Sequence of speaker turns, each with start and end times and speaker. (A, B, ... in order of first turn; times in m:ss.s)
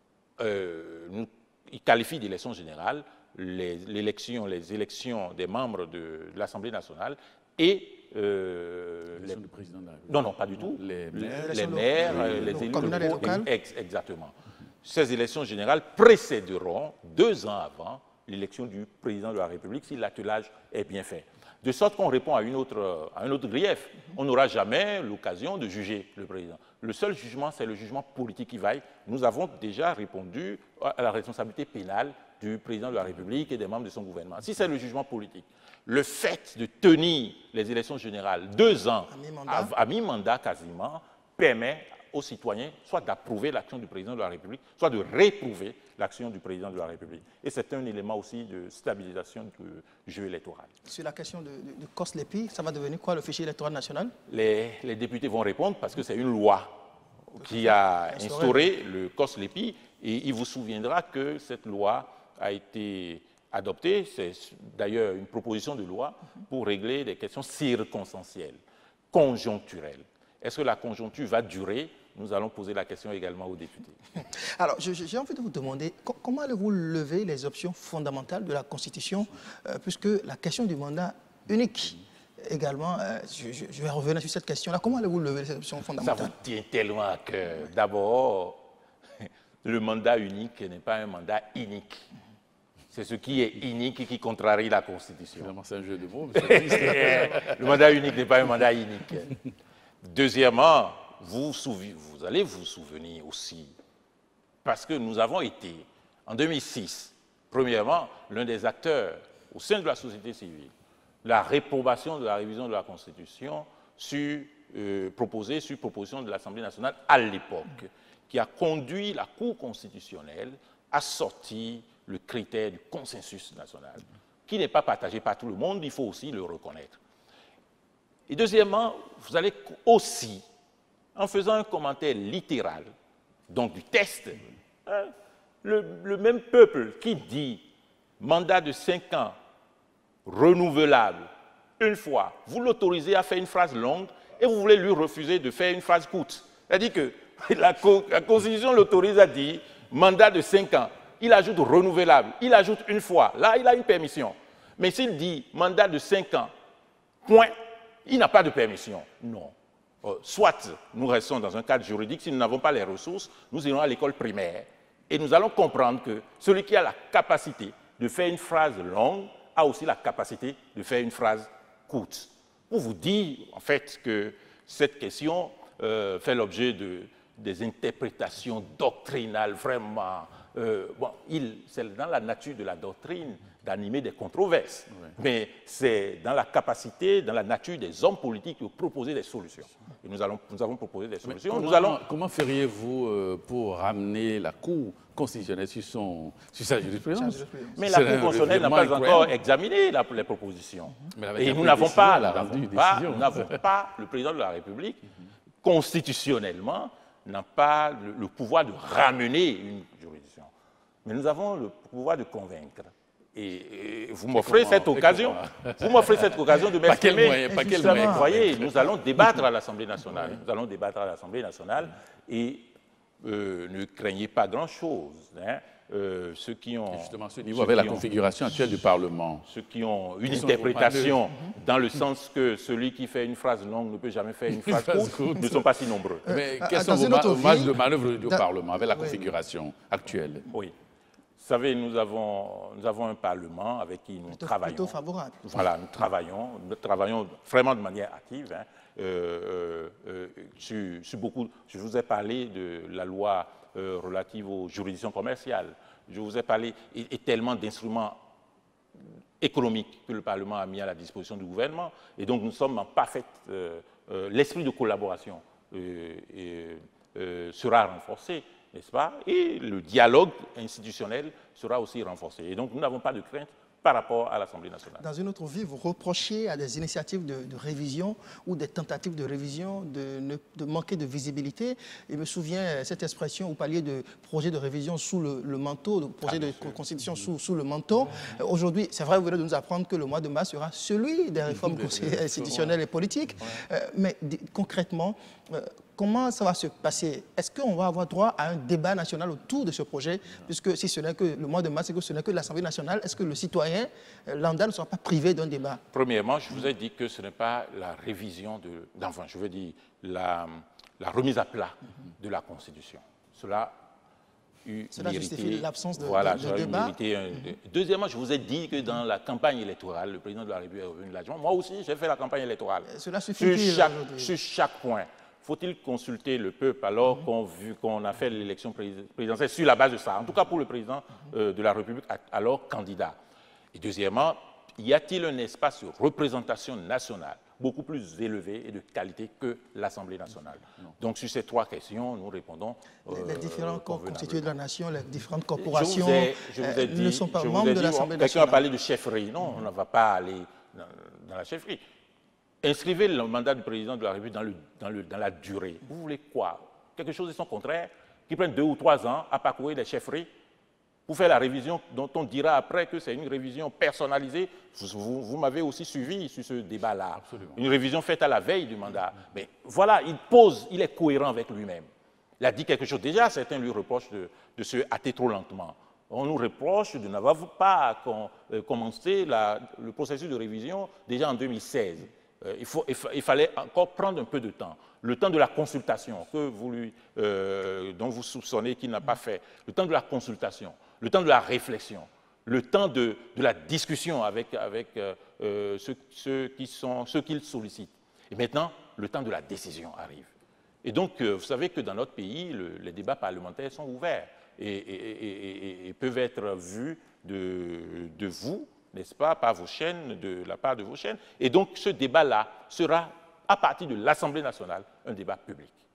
0:00.4-0:09.4 A
0:09.1-0:13.4 B
0:10.1-0:50.7 A
0:11.4-0:13.5 C
0:39.1-0:39.7 C
0:50.9-0:54.1 C
0:54.3-0:56.8 A
0:57.4-1:08.6 A
0:57.4-0:58.7 C
1:09.1-1:14.0 A
1:14.4-1:26.3 C
1:26.0-1:28.6 A
1:29.2-1:32.1 A
1:32.9-1:35.5 A
1:35.4-1:37.8 B
1:36.4-1:39.3 A
1:40.0-1:43.7 A
1:44.6-1:50.7 A
1:51.2-2:07.0 A
2:08.3-2:10.4 A
2:11.1-2:12.9 A
2:13.5-2:17.6 A
2:18.2-2:19.4 A
2:20.2-2:36.5 A
2:37.2-2:37.5 A
2:38.0-3:12.0 A
3:11.2-3:19.3 B
3:17.1-3:17.8 C
3:17.8-3:25.0 A
3:21.1-3:23.6 B
3:25.6-3:30.5 A
3:31.0-3:42.7 A
3:34.4-3:39.4 B
3:37.5-3:38.3 C
3:43.2-3:48.1 A
3:46.9-3:49.4 B
3:49.4-3:56.2 A
3:50.3-3:51.3 B
3:54.6-3:55.6 B
3:56.2-3:59.2 C
3:56.3-4:00.4 B
4:01.4-4:18.2 A
4:04.3-4:05.4 C
4:19.4-4:35.0 A
4:35.0-5:05.8 C
4:46.2-4:46.8 A
4:51.5-4:52.8 B
5:05.9-5:13.8 A
5:14.6-5:33.2 A
5:14.9-5:17.0 C
5:22.8-5:24.3 C
5:33.7-5:44.5 A
5:43.1-5:48.6 C
5:45.6-5:51.8 A
5:52.6-6:00.3 A
6:01.1-6:11.9 A
6:07.2-6:07.6 B
6:12.4-6:40.3 A
6:40.8-6:55.8 A